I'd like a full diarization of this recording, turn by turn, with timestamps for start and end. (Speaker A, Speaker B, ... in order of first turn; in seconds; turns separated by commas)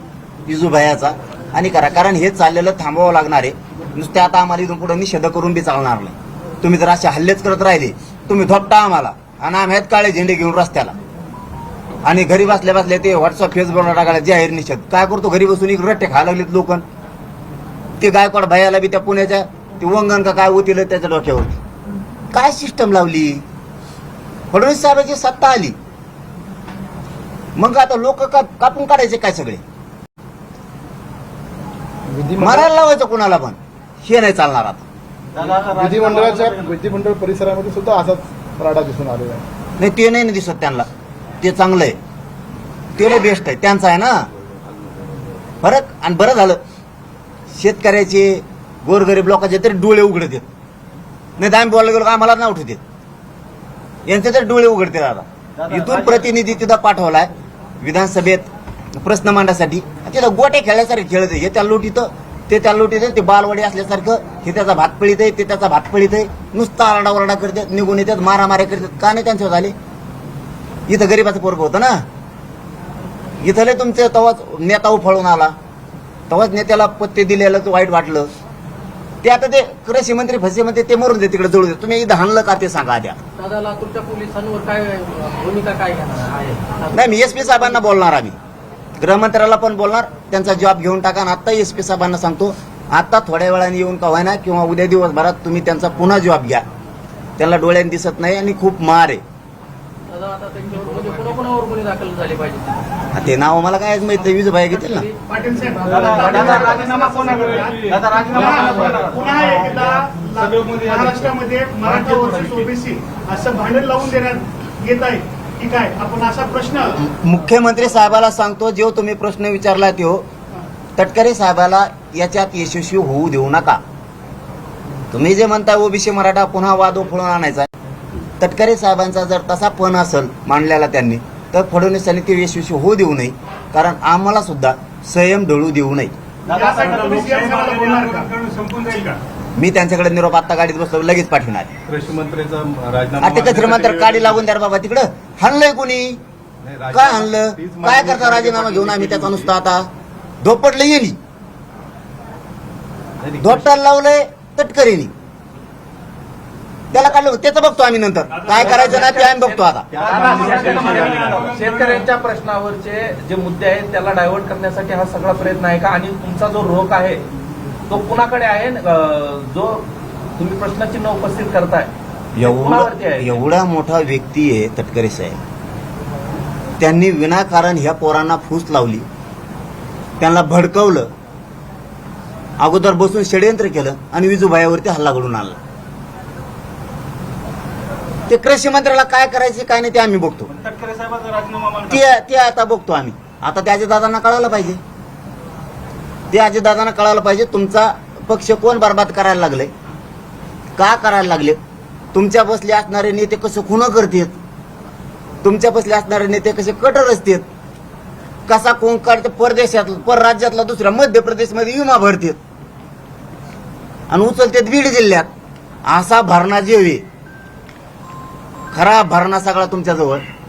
Speaker A: 0.5-11.0, Speaker A: 12.1-16.8, Speaker A: 18.0-21.6, Speaker A: 22.3-23.4, Speaker A: 24.5-25.8, Speaker A: 27.6-29.6, Speaker B: 32.1-32.7, Speaker A: 32.4-34.8, Speaker B: 35.7-39.5, Speaker A: 39.8-40.9, Speaker A: 41.4-42.0, Speaker A: 43.0-44.3, Speaker A: 45.6-46.6, Speaker A: 47.5-50.5, Speaker A: 51.4-52.8, Speaker A: 54.1-57.3, Speaker A: 57.8-69.7, Speaker A: 70.9-72.0, Speaker A: 73.4-75.5, Speaker A: 76.3-78.3, Speaker A: 79.2-83.2, Speaker C: 83.4-86.9, Speaker A: 86.9-88.4, Speaker A: 89.0-96.7, Speaker A: 97.4-99.2, Speaker C: 100.1-102.8, Speaker A: 103.1-105.1, Speaker D: 105.3-117.0, Speaker C: 106.1-106.6, Speaker E: 107.9-108.5, Speaker A: 117.0-120.3, Speaker A: 121.0-123.8, Speaker A: 125.1-127.7, Speaker A: 128.4-136.1, Speaker D: 136.5-139.2, Speaker A: 139.6-141.7, Speaker E: 141.9-144.3, Speaker A: 143.2-146.2, Speaker A: 146.9-149.9, Speaker A: 150.4-151.2, Speaker A: 153.4-155.1, Speaker A: 156.9-159.9, Speaker F: 158.5-167.2, Speaker D: 160.1-161.5, Speaker E: 160.7-161.6, Speaker F: 167.9-169.9, Speaker F: 170.4-173.4, Speaker A: 172.4-175.4, Speaker A: 176.8-179.1, Speaker A: 180.2-181.1, Speaker A: 182.6-185.6, Speaker A: 188.3-190.5, Speaker E: 190.6-191.9, Speaker A: 191.8-194.8, Speaker A: 196.3-199.7, Speaker A: 200.8-201.6, Speaker A: 202.1-204.4, Speaker A: 205.4-207.4, Speaker A: 208.5-212.4, Speaker A: 214.1-215.3, Speaker A: 215.8-217.0, Speaker A: 218.7-220.2